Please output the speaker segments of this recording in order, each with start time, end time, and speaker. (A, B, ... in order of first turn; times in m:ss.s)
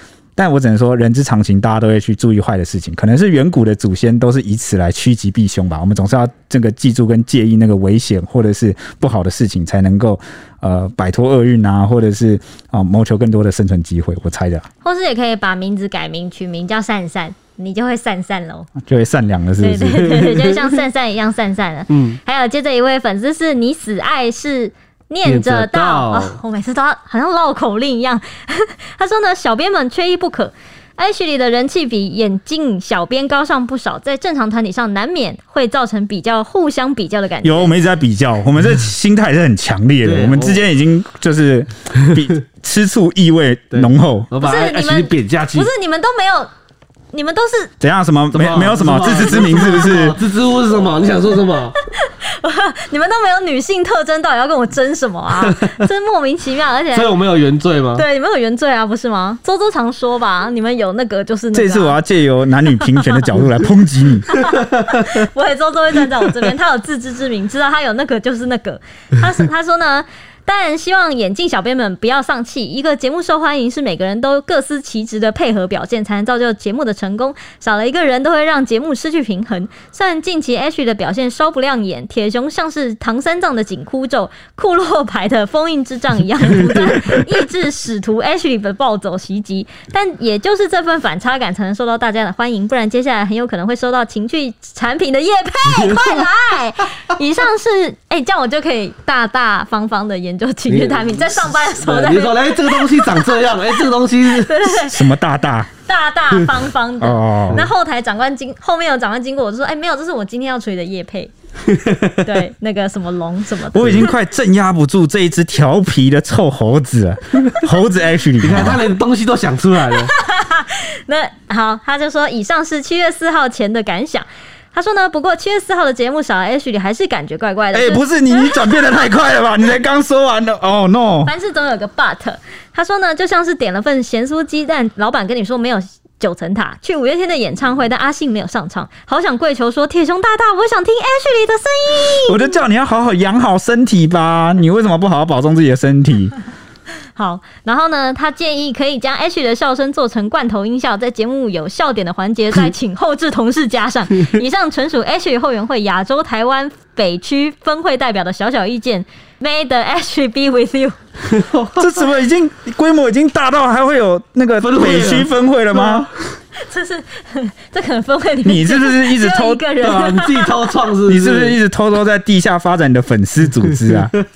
0:00.4-0:14.6 A
0:14.8-0:18.7 B
0:18.8-0:20.3 A
0:19.6-0:37.7 B
0:21.9-0:22.2 C
0:25.2-0:26.4 C
0:37.4-0:44.3 A
0:40.0-0:40.6 C
0:43.7-0:45.7 C
0:44.4-0:46.5 B
0:47.1-0:47.7 B
0:47.8-0:50.2 A
0:48.3-0:51.8 C
0:51.9-0:57.1 B
0:55.4-0:55.8 C
0:56.9-0:58.0 C
0:57.9-1:02.0 B
1:01.5-1:04.3 A
1:04.3-1:45.1 B
1:35.7-1:36.2 C
1:40.7-1:44.7 C
1:44.8-1:45.7 A
1:45.8-1:51.3 B
1:47.0-1:47.6 A
1:51.7-1:52.2 C
1:52.2-1:54.1 B
1:53.7-1:58.8 A
1:58.4-2:00.1 C
2:00.0-2:08.9 B
2:07.7-2:11.3 A
2:11.2-2:22.5 B
2:22.3-2:26.3 A
2:27.2-2:41.0 B
2:41.3-2:41.9 C
2:41.8-2:46.1 A
2:44.6-2:45.3 C
2:46.6-2:50.6 B
2:48.4-2:49.6 A
2:49.8-2:51.6 C
2:51.1-2:54.2 A